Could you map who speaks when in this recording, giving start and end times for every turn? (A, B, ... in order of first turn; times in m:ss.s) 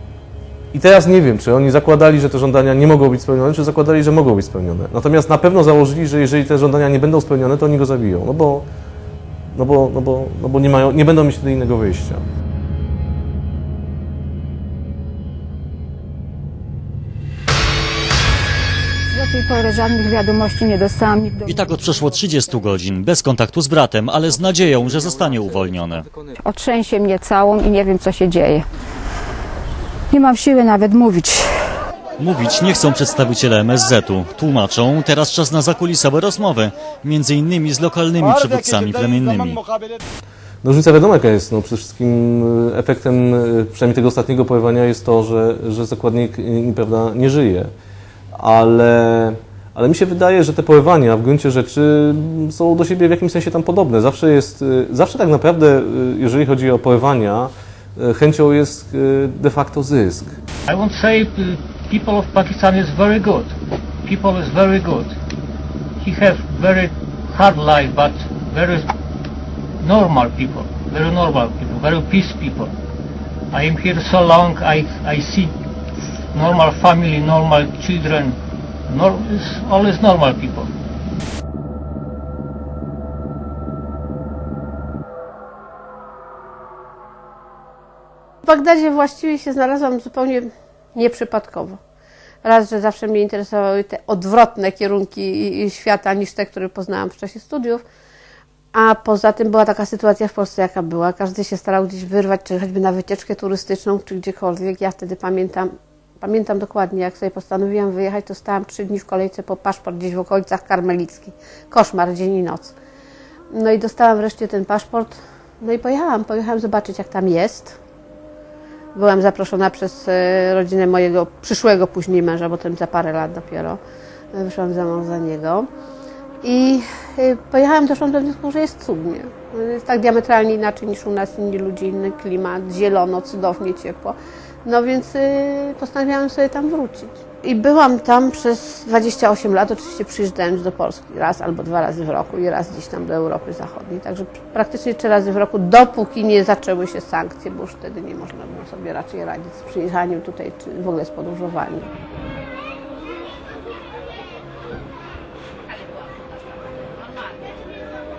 0:00.7-0:08.6 A
0:09.5-0:12.2 A
0:19.1-0:21.6 B
0:21.4-0:26.0 C
0:26.4-0:28.6 B
0:30.1-0:31.6 B
0:32.2-0:39.6 C
0:40.6-0:47.7 A
0:48.3-1:00.4 A
1:00.7-1:05.1 D
1:06.0-1:08.9 D
1:09.8-1:12.7 D
1:13.5-1:15.5 D
1:16.3-1:20.7 D
1:28.4-1:31.8 E
1:32.4-1:37.8 E
1:38.7-1:52.7 E
1:53.5-1:57.8 E
1:58.9-2:03.8 E
2:04.3-2:05.7 E
2:06.4-2:31.9 E